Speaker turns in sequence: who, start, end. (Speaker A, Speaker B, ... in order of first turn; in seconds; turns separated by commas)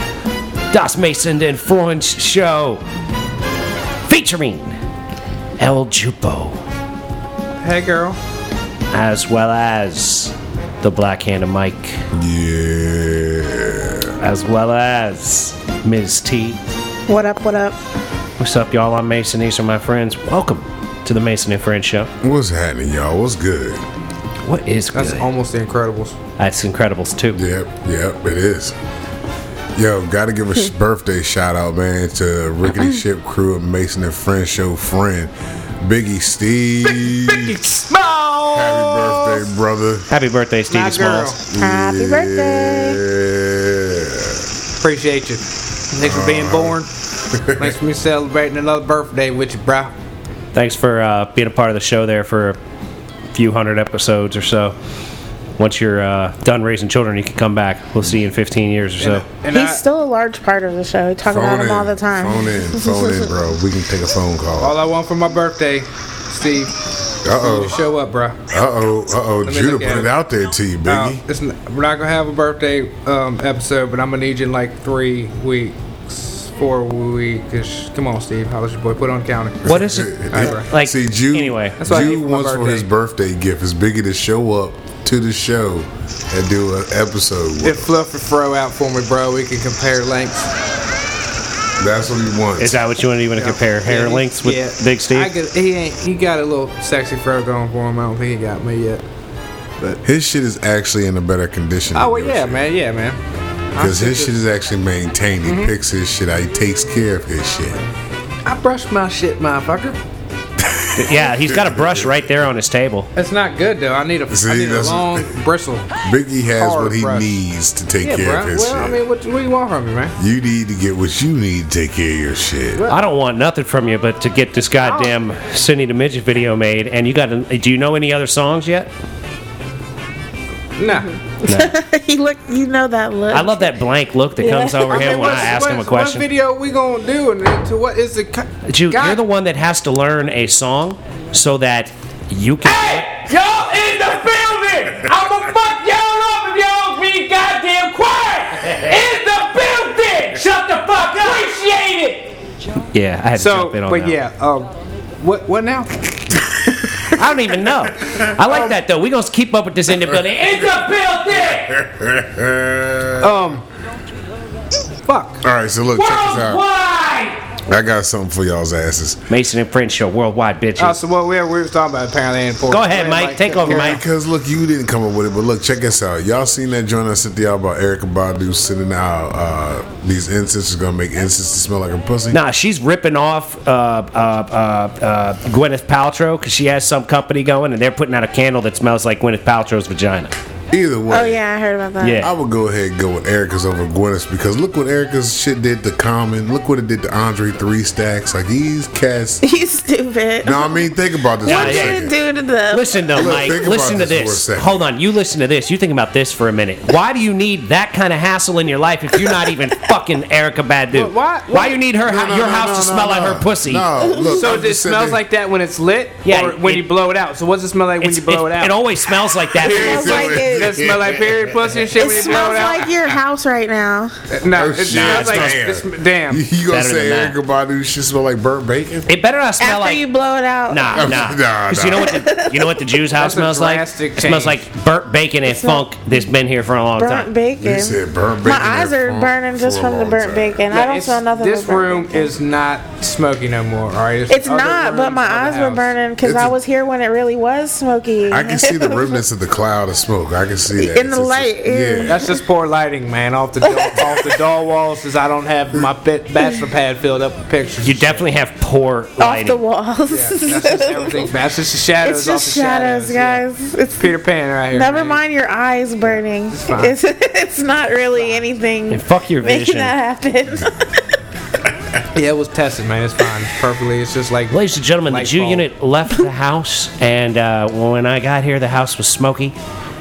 Speaker A: 0.7-2.8, Speaker A: 4.1-4.8, Speaker A: 5.6-6.6, Speaker B: 7.6-8.2, Speaker A: 8.9-12.0, Speaker C: 12.1-14.2, Speaker A: 14.2-16.6, Speaker D: 17.1-17.8, Speaker A: 18.4-22.1, Speaker C: 22.2-23.8, Speaker A: 24.4-25.3, Speaker B: 24.9-26.2, Speaker A: 26.4-27.4, Speaker C: 27.3-28.7, Speaker C: 29.8-37.6, Speaker B: 36.9-39.5, Speaker C: 38.5-40.1, Speaker A: 40.1-41.4, Speaker B: 40.7-41.4, Speaker C: 41.5-44.5, Speaker D: 41.5-43.0, Speaker B: 44.8-46.9, Speaker C: 46.0-47.7, Speaker B: 47.5-49.9, Speaker A: 50.5-52.6, Speaker A: 53.3-54.7, Speaker A: 55.6-59.2, Speaker B: 59.0-59.8, Speaker D: 59.5-63.1, Speaker C: 61.2-64.8, Speaker B: 64.6-66.7, Speaker C: 67.2-67.8, Speaker B: 67.4-68.4, Speaker C: 68.5-71.2, Speaker B: 69.5-70.1, Speaker B: 70.8-79.8, Speaker A: 79.6-81.8, Speaker C: 79.6-87.8, Speaker B: 80.3-80.7, Speaker B: 81.8-82.9, Speaker B: 87.6-90.5, Speaker C: 91.8-92.8, Speaker A: 92.6-95.3, Speaker B: 93.3-99.0, Speaker C: 100.0-102.7, Speaker B: 101.9-103.2, Speaker B: 103.7-104.3, Speaker C: 103.8-107.8, Speaker B: 105.4-105.7, Speaker B: 108.4-110.0, Speaker C: 110.6-112.2, Speaker A: 111.0-113.1, Speaker B: 113.2-115.9, Speaker C: 114.3-115.4, Speaker C: 116.0-119.0, Speaker B: 116.6-117.4, Speaker B: 118.0-120.1, Speaker C: 120.2-122.8, Speaker A: 122.9-128.9, Speaker B: 124.8-125.1, Speaker B: 130.8-131.1, Speaker D: 130.9-133.7, Speaker A: 131.4-131.7, Speaker A: 133.3-136.3, Speaker D: 134.4-135.5, Speaker B: 134.9-139.2, Speaker A: 138.7-143.1, Speaker B: 142.6-149.1, Speaker E: 144.3-144.7, Speaker E: 145.8-148.2, Speaker A: 148.6-149.0, Speaker E: 149.1-152.3, Speaker A: 152.9-154.2, Speaker B: 153.3-154.7, Speaker B: 155.2-155.9, Speaker C: 156.5-156.9, Speaker A: 157.1-161.8, Speaker C: 161.5-163.3, Speaker B: 163.2-163.6, Speaker B: 165.1-165.4, Speaker C: 165.4-166.6, Speaker A: 165.9-167.4, Speaker C: 167.7-169.2, Speaker A: 169.3-171.0, Speaker B: 170.8-174.0, Speaker A: 172.7-174.0, Speaker C: 173.6-182.4, Speaker A: 182.3-190.3, Speaker C: 190.7-191.4, Speaker D: 191.1-192.2, Speaker A: 192.0-192.3, Speaker C: 192.2-199.4, Speaker D: 199.4-200.8, Speaker C: 200.4-202.1, Speaker D: 201.4-203.0, Speaker A: 201.4-202.1, Speaker A: 202.7-213.9, Speaker C: 203.1-204.8, Speaker B: 210.9-211.8, Speaker C: 212.0-215.2, Speaker D: 214.1-214.4, Speaker B: 214.3-218.8, Speaker A: 216.2-216.9, Speaker A: 218.0-220.4, Speaker C: 219.5-221.8, Speaker D: 219.6-220.8, Speaker B: 220.4-222.9, Speaker D: 222.0-224.1, Speaker B: 224.3-226.4, Speaker C: 224.5-229.1, Speaker A: 224.9-225.6, Speaker A: 226.7-227.3, Speaker A: 229.1-230.0, Speaker D: 229.6-231.1, Speaker A: 230.7-237.3, Speaker C: 230.9-232.2, Speaker D: 232.0-232.8, Speaker B: 233.2-234.6, Speaker D: 235.4-235.8, Speaker D: 237.0-242.3, Speaker C: 237.6-240.6, Speaker B: 240.7-245.9, Speaker D: 244.3-249.1, Speaker C: 246.2-246.6, Speaker C: 248.3-252.2, Speaker D: 250.7-252.3, Speaker B: 252.1-258.2, Speaker D: 253.7-254.1, Speaker A: 257.8-259.6, Speaker D: 259.2-261.3, Speaker B: 260.1-263.4, Speaker D: 262.0-264.1, Speaker B: 264.0-265.2, Speaker D: 264.7-270.9, Speaker B: 266.0-267.0, Speaker A: 268.9-269.9, Speaker B: 272.1-275.6, Speaker A: 274.5-279.6